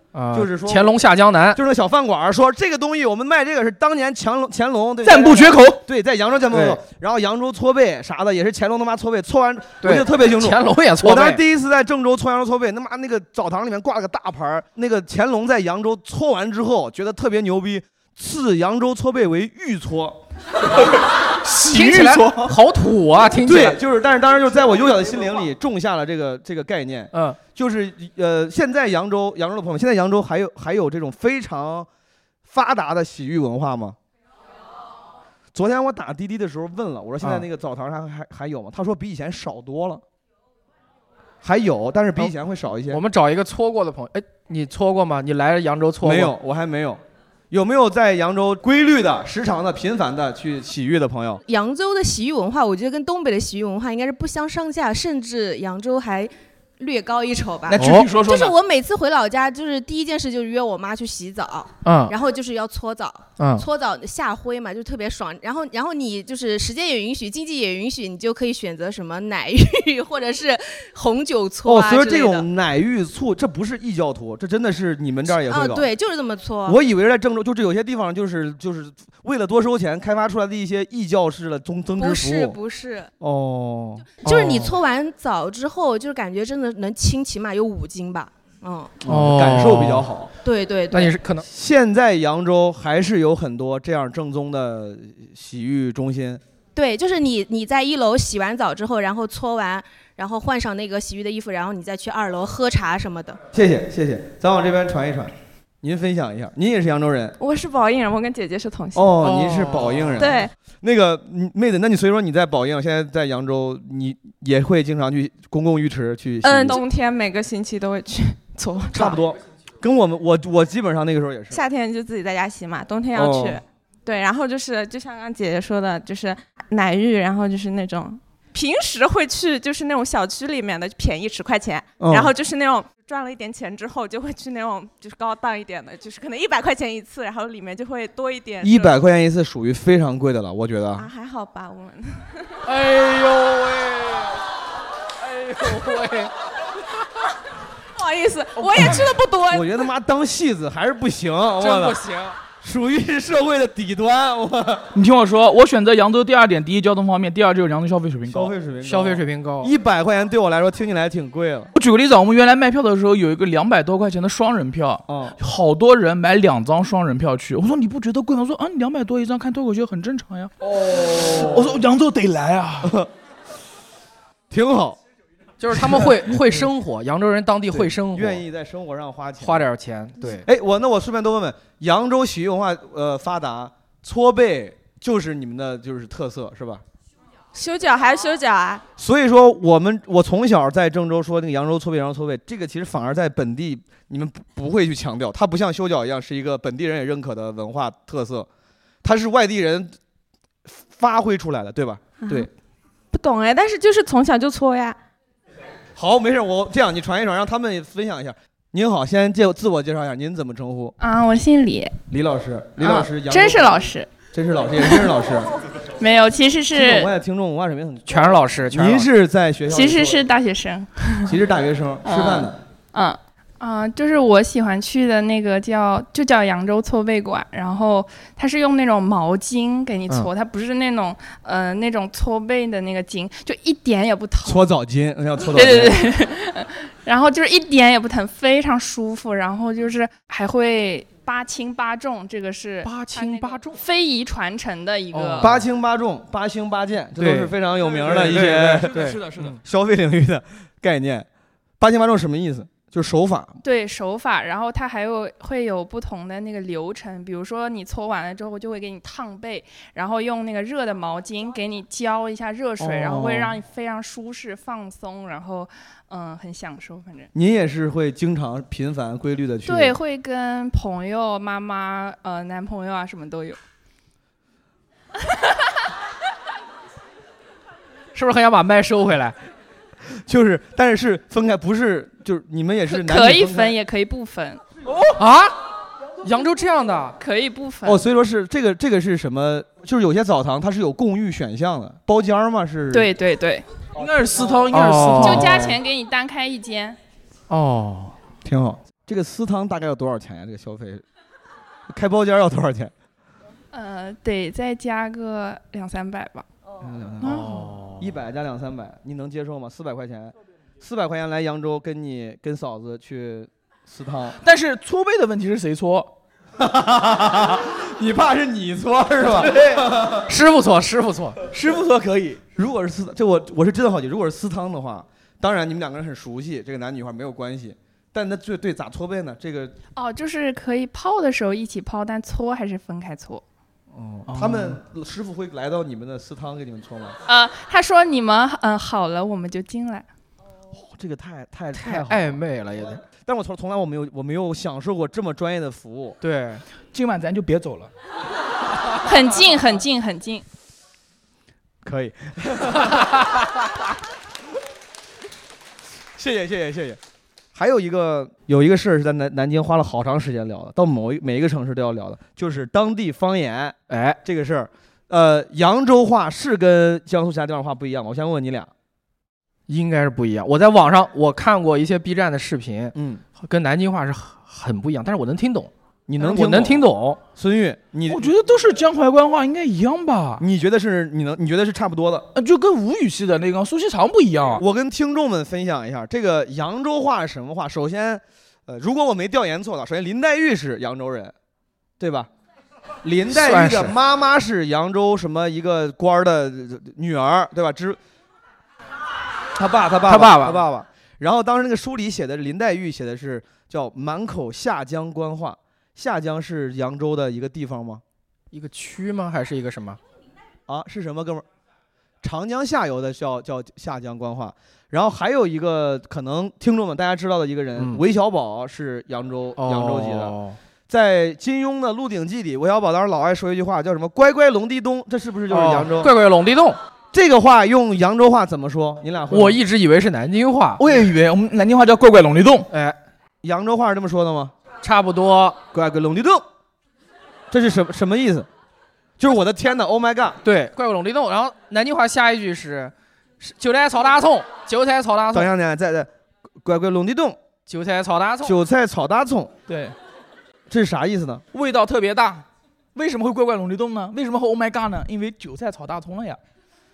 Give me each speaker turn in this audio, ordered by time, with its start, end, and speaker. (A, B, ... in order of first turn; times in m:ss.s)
0:00.1-0:01.6 A
0:00.3-0:00.9 B
0:01.5-0:20.2 B
0:05.0-0:05.8 C
0:06.5-0:06.8 A
0:09.8-0:11.4 A
0:21.4-0:22.5 C
0:21.7-0:23.8 A
0:23.4-0:31.9 B
0:32.4-0:34.0 B
0:35.5-0:40.0 B
0:41.4-0:43.0 B
0:42.9-0:46.3 A
0:46.0-0:51.4 B
0:51.4-1:12.4 D
0:57.7-0:58.6 C
0:57.8-0:58.1 A
1:01.8-1:02.1 A
1:03.4-1:03.6 A
1:11.6-1:15.9 B
1:15.5-1:16.8 D
1:16.6-1:22.6 B
1:22.0-1:23.1 D
1:23.2-1:24.1 B
1:24.2-1:29.0 D
1:24.2-1:24.7 A
1:29.0-1:30.0 A
1:29.0-1:30.3 B
1:30.4-1:31.2 D
1:30.9-1:31.4 A
1:31.4-1:36.4 B
1:36.8-1:43.4 D
1:43.5-1:47.4 B
1:47.4-1:49.2 E
1:49.0-1:56.8 B
1:49.2-1:50.2 A
1:50.2-1:50.5 E
1:56.4-1:59.2 E
1:58.9-2:01.6 B
2:01.5-2:18.9 E
2:03.1-2:03.6 B
2:12.0-2:12.3 B
2:18.6-2:21.1 B
2:21.0-2:22.5 E
2:22.7-2:24.4 A
2:25.2-2:26.3 A
2:28.0-2:29.8 E
2:29.5-2:32.0 B
2:31.6-2:32.4 A
2:32.6-2:34.9 B
2:34.9-2:38.5 C
2:38.3-2:41.7 B
2:38.8-2:39.7 A
2:41.8-2:53.0 C
2:45.1-2:45.4 B
2:54.5-2:55.0 B
2:55.6-2:58.4 A
2:57.7-2:59.7 B
2:59.4-3:00.4 A
3:00.4-3:06.8 B
3:07.5-3:08.8 E
3:09.0-3:18.5 B
3:19.0-3:19.9 B
3:20.7-3:22.5 B
3:23.1-3:25.0 E
3:26.0-3:31.0 B
3:31.0-3:32.0 F
3:32.1-3:35.5 B
3:33.2-3:34.1 F
3:36.0-3:37.1 F
3:36.7-3:40.2 B
3:38.1-3:39.1 A
3:39.7-3:41.4 F
3:41.3-3:42.6 B
3:42.0-3:54.6 F
3:54.4-3:56.0 B
3:55.5-4:05.5 F
4:02.9-4:03.7 A
4:05.1-4:05.4 A
4:05.4-4:11.3 B
4:07.2-4:07.5 A
4:08.0-4:09.6 C
4:08.1-4:09.5 A
4:11.8-4:13.6 B
4:13.6-4:27.3 F
4:22.8-4:23.5 B
4:27.3-4:30.0 B
4:29.7-4:33.6 F
4:38.1-4:39.4 A
4:40.3-4:43.8 B
4:42.9-4:44.6 F
4:45.2-4:45.6 A
4:46.2-4:47.2 A
4:47.2-4:48.0 F
4:47.8-4:53.1 B
4:52.9-4:53.6 F
4:54.0-4:55.7 C
4:54.7-4:55.5 A
4:55.2-4:57.0 F
4:57.5-4:58.1 A
4:58.4-5:01.0 B
5:01.9-5:02.9 B
5:03.7-5:06.5 F
5:06.8-5:14.4 B
5:07.2-5:07.8 C
5:14.4-5:16.1 C
5:16.6-5:20.2 B
5:20.3-5:21.4 A
5:21.5-5:22.4 C
5:22.5-5:29.8 B
5:30.0-5:33.4 F
5:34.0-5:37.2 B
5:34.3-5:34.8 C
5:37.3-5:40.1 F
5:40.7-5:42.4 B
5:41.8-5:43.0 A
5:43.2-5:46.2 B
5:46.2-5:46.6 A
5:46.9-5:47.9 C
5:49.0-5:50.4 F
5:51.8-5:52.9 B
5:56.2-5:57.0 B
5:57.6-6:08.7 B
6:03.9-6:04.2 A
6:09.7-6:17.2 A
6:12.9-6:13.2 B
6:16.1-6:18.3 B
6:18.1-6:20.4 C
6:20.4-6:22.3 B
6:22.4-6:24.6 C
6:24.6-6:31.3 B
6:32.0-6:32.3 B
6:33.0-6:38.0 B
6:33.3-6:33.9 A
6:39.6-6:48.0 B
6:40.1-6:40.6 A
6:48.5-6:50.0 A
6:50.7-6:51.4 B
6:52.2-7:00.4 B
6:59.6-7:00.6 A
7:00.9-7:06.1 B
7:05.5-7:06.8 A
7:07.1-7:09.6 B
7:09.3-7:10.8 A
7:10.8-7:12.7 C
7:12.7-7:13.0 A
7:13.4-7:14.5 B
7:14.8-7:15.6 A
7:15.7-7:16.4 B
7:17.5-7:18.5 B
7:19.2-7:20.4 B
7:20.4-7:25.5 A
7:25.3-7:26.1 B
7:26.6-7:27.4 B
7:27.7-7:28.6 A
7:28.4-7:29.5 B
7:29.7-7:29.9 C
7:30.7-7:31.4 B
7:31.5-7:36.4 C